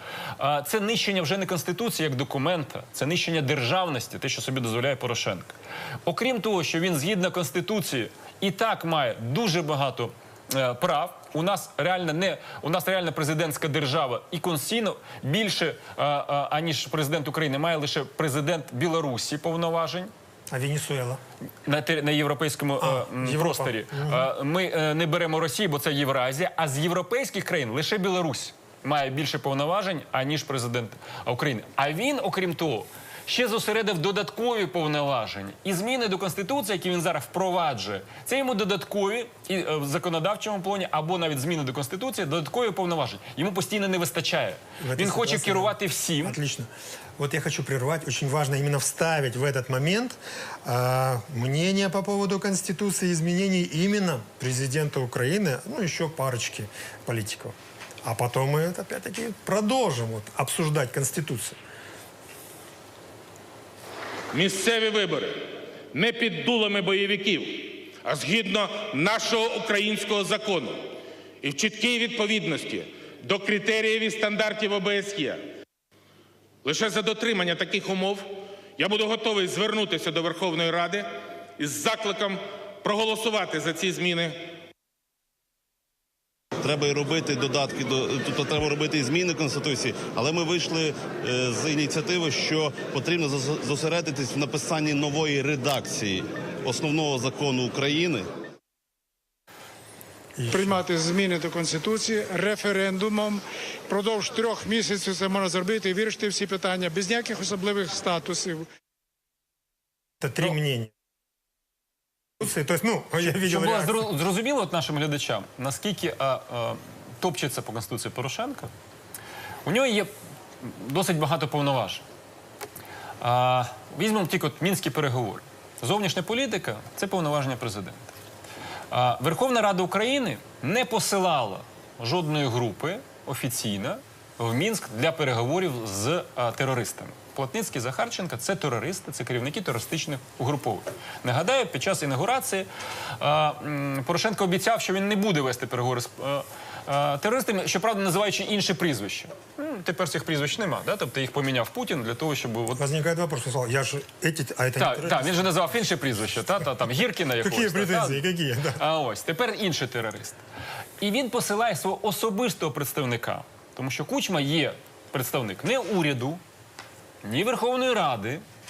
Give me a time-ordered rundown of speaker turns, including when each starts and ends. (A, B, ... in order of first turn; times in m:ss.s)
0:00.4-0:05.5 A
0:06.0-0:20.1 A
0:20.5-0:21.2 B
0:21.6-0:46.4 A
0:22.8-0:24.3 B
0:44.8-1:01.6 B
1:04.3-1:05.4 C
1:05.9-1:10.8 C
1:11.4-1:15.4 C
1:16.6-1:18.2 C
1:18.8-1:21.1 C
1:21.6-1:24.4 C
1:26.6-1:38.2 D
1:40.4-1:40.8 B
1:40.5-1:48.6 E
1:50.2-1:50.9 B
1:52.4-1:54.0 B
1:53.2-1:58.7 A
1:59.6-2:00.1 A
2:00.6-2:02.0 A
2:03.2-2:08.1 A
2:08.9-2:32.8 A
2:32.7-2:35.6 B
2:34.8-2:38.2 A
2:37.4-2:38.8 B
2:38.8-2:40.4 A
2:41.0-2:46.4 A
2:47.2-2:48.4 A